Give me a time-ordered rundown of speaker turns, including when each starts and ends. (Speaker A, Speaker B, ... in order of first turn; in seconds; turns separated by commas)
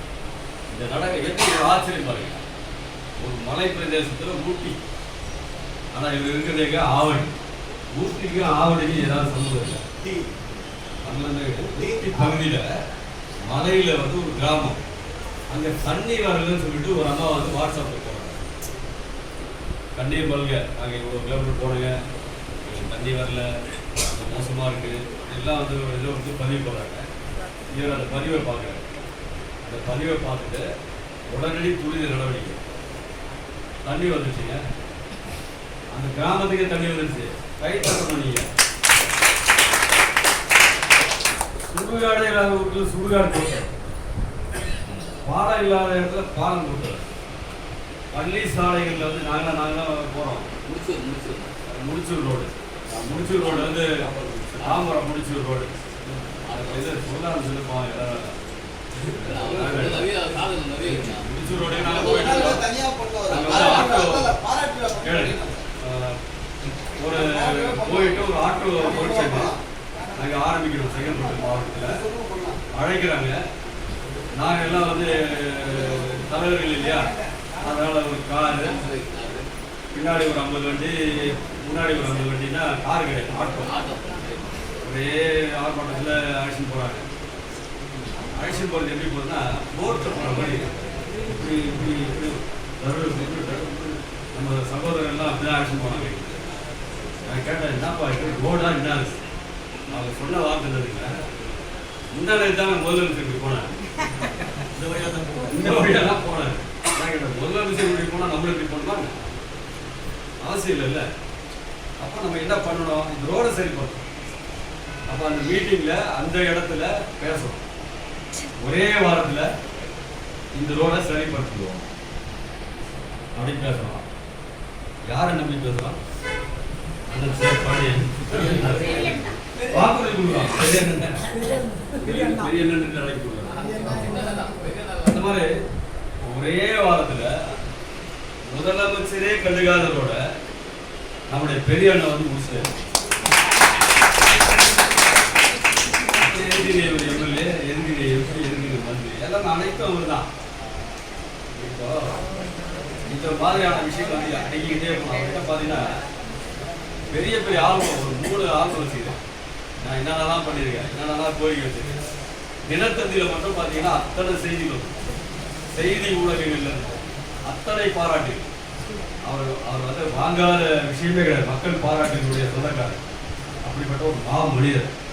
Speaker A: 0.7-2.4, Speaker A: 3.2-4.8, Speaker A: 5.9-7.3, Speaker A: 7.9-9.8, Speaker A: 11.0-12.7, Speaker A: 13.5-14.8, Speaker A: 15.5-18.4, Speaker A: 19.9-22.0, Speaker A: 22.6-27.1, Speaker A: 27.7-28.8, Speaker A: 29.6-30.6, Speaker A: 31.3-32.6, Speaker A: 33.8-34.6, Speaker A: 35.9-38.5, Speaker A: 41.7-43.7, Speaker A: 45.2-47.0, Speaker A: 48.1-50.5, Speaker B: 50.6-51.5, Speaker A: 51.7-52.5, Speaker A: 53.0-54.0, Speaker B: 53.3-54.8, Speaker A: 54.6-55.7, Speaker B: 56.5-57.0, Speaker A: 56.5-58.3, Speaker B: 59.2-61.3, Speaker A: 59.2-60.1, Speaker A: 60.8-62.6, Speaker C: 61.8-65.6, Speaker A: 63.3-64.3, Speaker B: 63.4-63.9, Speaker A: 65.0-66.2, Speaker A: 67.0-69.5, Speaker C: 67.1-68.1, Speaker C: 68.8-69.5, Speaker A: 70.1-72.0, Speaker C: 72.0-72.6, Speaker A: 72.7-73.4, Speaker A: 74.4-78.8, Speaker B: 78.6-79.5, Speaker A: 79.9-83.7, Speaker B: 83.6-84.5, Speaker A: 84.8-87.0, Speaker A: 88.3-90.7, Speaker A: 91.2-96.4, Speaker A: 97.2-99.2, Speaker A: 99.9-101.2, Speaker A: 102.1-103.7, Speaker A: 105.3-109.2, Speaker A: 110.4-111.0, Speaker A: 112.0-114.0, Speaker A: 115.1-117.6, Speaker A: 118.6-119.5, Speaker A: 120.5-121.8, Speaker A: 123.3-124.0, Speaker A: 125.1-126.0, Speaker A: 127.1-131.2, Speaker A: 132.0-133.6, Speaker B: 133.6-135.2, Speaker A: 135.1-135.5, Speaker A: 136.2-137.4, Speaker A: 138.4-140.2, Speaker A: 141.3-142.7, Speaker A: 146.2-150.3, Speaker A: 151.5-152.2, Speaker A: 153.1-155.9, Speaker A: 157.1-159.2, Speaker A: 159.8-162.0, Speaker A: 162.7-164.9, Speaker A: 165.8-168.5, Speaker A: 169.3-173.0, Speaker A: 173.7-174.9